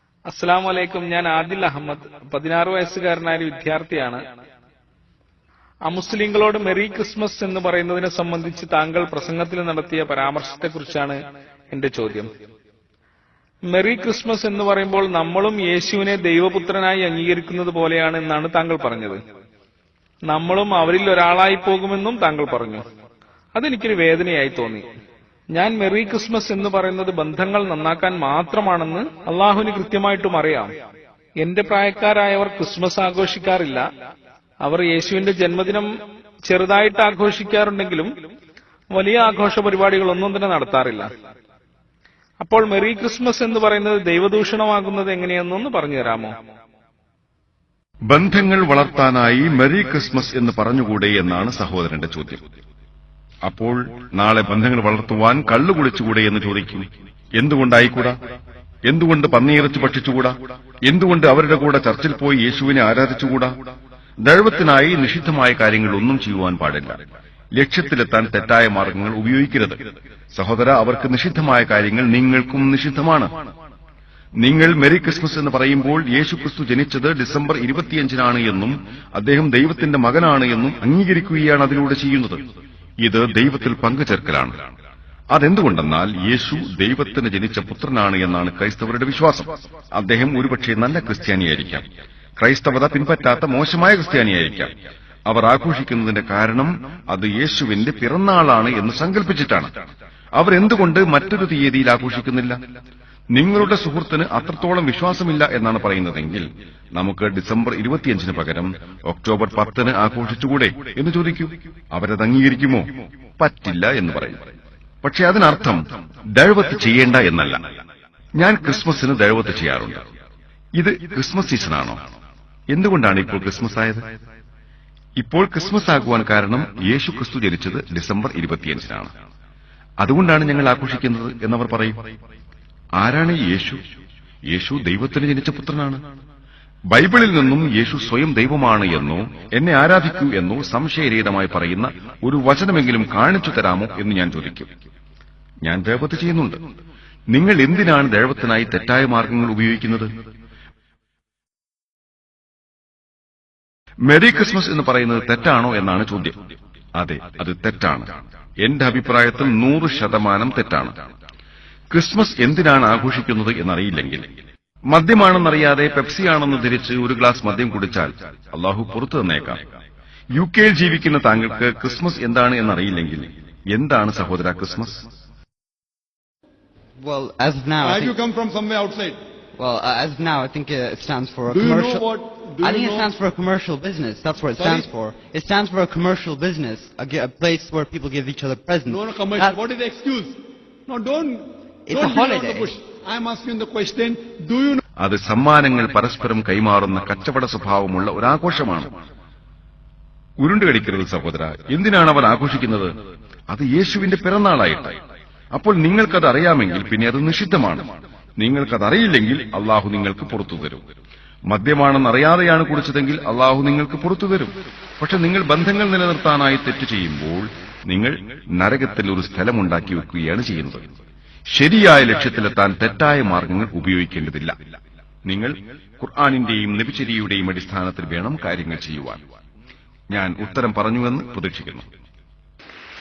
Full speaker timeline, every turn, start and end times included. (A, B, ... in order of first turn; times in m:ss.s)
0:00.3-0:04.2 A
0:05.9-0:11.2 A
0:11.7-0:12.3 A
0:13.7-0:19.2 A
0:20.3-0:22.8 A
0:23.5-0:24.8 A
0:25.5-0:30.7 A
0:31.4-0:33.8 A
0:34.6-0:35.9 A
0:36.5-0:38.1 A
0:38.9-0:41.1 A
0:42.4-0:46.3 A
0:48.1-0:52.4 B
0:53.4-0:58.2 B
0:58.8-1:00.3 B
1:00.8-1:03.5 B
1:04.2-1:07.0 B
1:07.5-1:13.4 B
1:14.4-1:22.4 B
1:23.0-1:24.7 B
1:25.3-1:31.8 B
1:32.4-1:34.7 B
1:35.3-1:39.7 B
1:40.4-1:42.6 B
1:43.3-1:54.4 B
1:55.0-1:55.8 B
1:56.4-1:57.6 B
1:58.4-2:00.0 B
2:00.8-2:02.0 B
2:02.7-2:04.0 B
2:05.2-2:09.1 B
2:10.0-2:12.0 B
2:13.0-2:13.8 B
2:14.5-2:16.0 B
2:16.9-2:24.7 B
2:25.6-2:26.6 B
2:27.3-2:30.1 B
2:34.1-2:36.4 B
2:37.0-2:41.0 B
2:41.9-2:44.2 B
2:44.9-2:49.6 B
2:50.4-2:55.0 B
2:57.0-2:58.2 C
2:57.8-2:59.2 D
2:59.6-3:02.0 C
3:01.5-3:03.2 D
3:02.6-3:09.6 C
3:04.5-3:04.9 D
3:08.9-3:14.8 D
3:11.9-3:12.7 C
3:15.0-3:18.9 B
3:20.4-3:22.9 B
3:23.5-3:25.0 B
3:25.5-3:30.8 B
3:31.5-3:40.9 B
3:41.5-3:44.6 B
3:45.2-3:49.2 B
3:50.1-3:51.9 B